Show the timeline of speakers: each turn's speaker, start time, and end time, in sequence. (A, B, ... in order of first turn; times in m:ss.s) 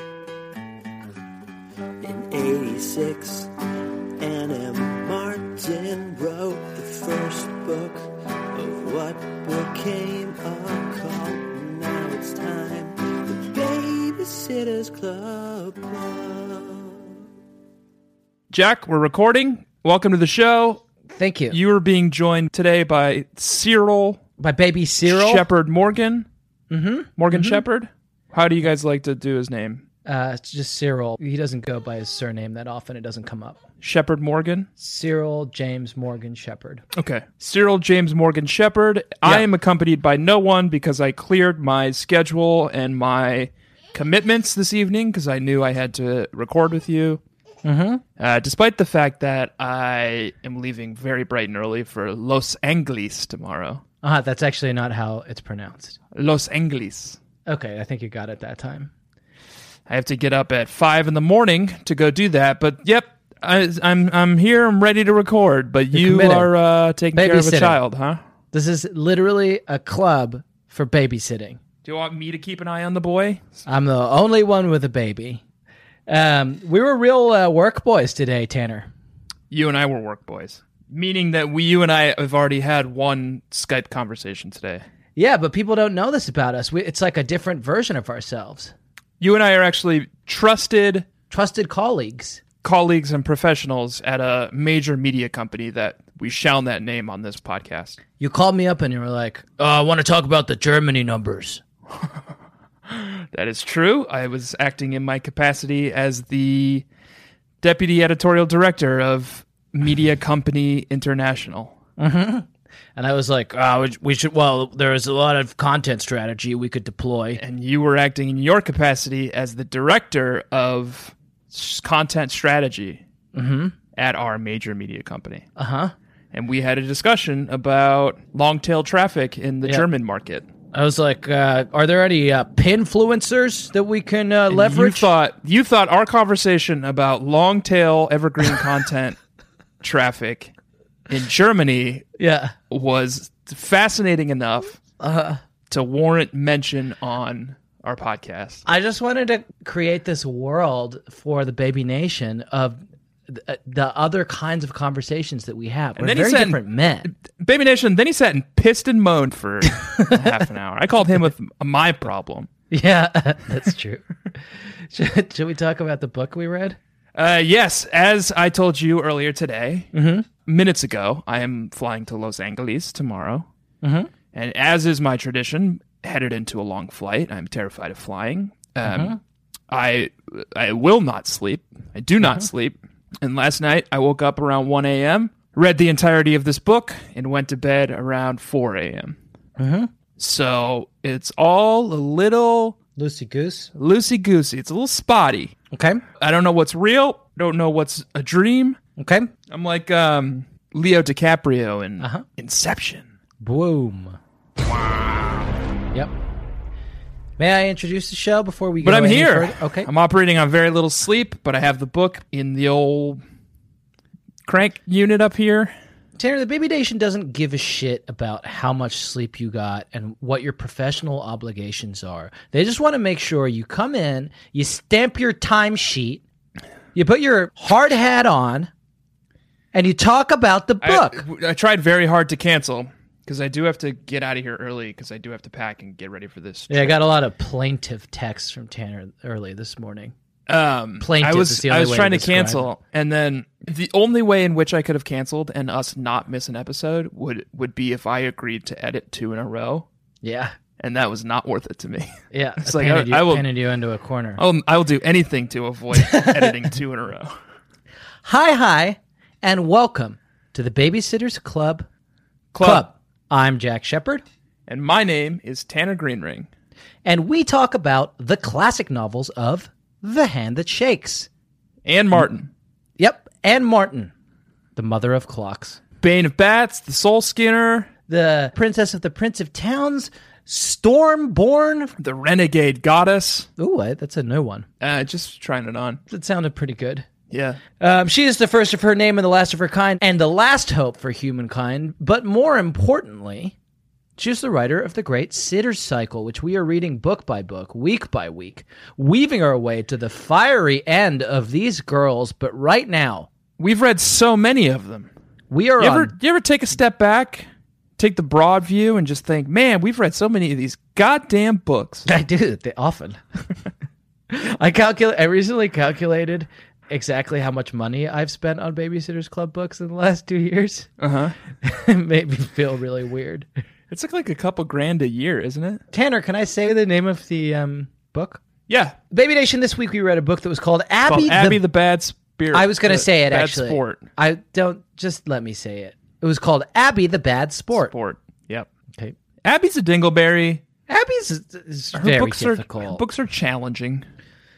0:02.0-0:03.5 A
0:04.2-0:17.1 A
0:18.5-0:20.8 B
0:21.1-0:21.6 C
0:21.5-0:24.2 B
0:24.4-0:25.4 C
0:25.1-0:26.3 B
0:26.7-0:27.6 C
0:27.2-0:29.8 B
0:30.1-0:33.6 C
0:33.8-0:34.7 B
0:34.8-0:36.8 C
0:36.9-0:47.2 B
0:47.6-0:48.0 C
0:48.2-0:53.8 B
0:54.0-0:56.0 C
0:56.1-0:57.2 B
0:57.5-0:58.9 C
0:59.9-1:08.2 B
1:05.9-1:06.5 C
1:07.1-1:07.8 C
1:08.5-1:11.6 C
1:11.8-1:13.5 B
1:13.7-1:15.4 C
1:16.1-1:18.9 C
1:19.5-1:24.8 B
1:25.2-1:28.7 C
1:29.2-1:31.1 B
1:31.3-1:32.4 C
1:32.6-1:38.0 B
1:38.2-1:41.6 C
1:42.9-1:46.8 B
1:47.6-1:51.8 B
1:52.0-1:57.4 C
1:57.4-2:03.0 B
2:03.3-2:03.8 C
2:04.0-2:05.5 B
2:05.6-2:05.9 C
2:06.3-2:10.5 B
2:10.7-2:15.1 C
2:14.5-2:19.2 B
2:19.8-2:20.5 B
2:21.1-2:22.0 B
2:22.2-2:22.5 C
2:22.7-2:24.8 B
2:25.0-2:25.4 C
2:25.7-2:28.6 B
2:28.6-2:37.1 C
2:36.0-2:42.5 B
2:39.7-2:40.2 C
2:42.7-2:46.8 C
2:47.2-2:53.5 B
2:49.9-2:50.3 C
2:53.8-2:54.1 C
2:54.3-2:59.2 B
2:58.8-2:59.2 C
2:59.7-3:09.2 B
3:09.6-3:09.9 C
3:10.2-3:12.8 B
3:13.0-3:13.7 C
3:13.7-3:15.5 B
3:15.7-3:16.0 C
3:16.2-3:18.8 B
3:19.0-3:19.3 C
3:19.5-3:23.1 B
3:22.0-3:22.2 C
3:23.4-3:24.2 C
3:27.4-3:29.9 C
3:28.8-3:33.2 B
3:34.5-3:35.7 B
3:36.2-3:46.2 C
3:47.0-3:48.7 C
3:49.7-3:51.2 C
3:50.8-3:57.0 B
3:56.7-4:00.1 C
4:00.5-4:09.9 B
4:01.0-4:02.7 C
4:10.2-4:10.6 C
4:10.8-4:13.5 B
4:12.3-4:14.4 C
4:14.4-4:17.4 B
4:15.9-4:16.6 C
4:18.2-4:21.9 C
4:22.5-4:22.9 B
4:22.6-4:24.2 C
4:24.7-4:26.5 B
4:27.0-4:31.3 C
4:31.8-4:32.5 B
4:33.0-4:34.1 C
4:34.8-4:35.8 C
4:36.0-4:37.9 B
4:38.1-4:42.0 C
4:42.0-4:43.5 B
4:43.6-4:44.7 C
4:44.8-4:46.0 B
4:46.1-4:47.1 C
4:47.3-4:47.6 B
4:47.8-4:53.6 C
4:54.2-5:03.3 C
5:03.6-5:05.1 B
5:05.5-5:06.1 C
5:05.8-5:12.1 B
5:12.1-5:13.2 C
5:14.3-5:20.9 C
5:21.0-5:21.4 B
5:21.6-5:23.5 C
5:23.9-5:25.8 B
5:25.9-5:28.4 C
5:28.7-5:29.0 B
5:29.1-5:31.6 C
5:31.1-5:34.0 B
5:32.5-5:37.9 C
5:37.8-5:38.7 B
5:39.4-5:40.6 B
5:40.9-5:43.0 C
5:41.9-5:44.0 B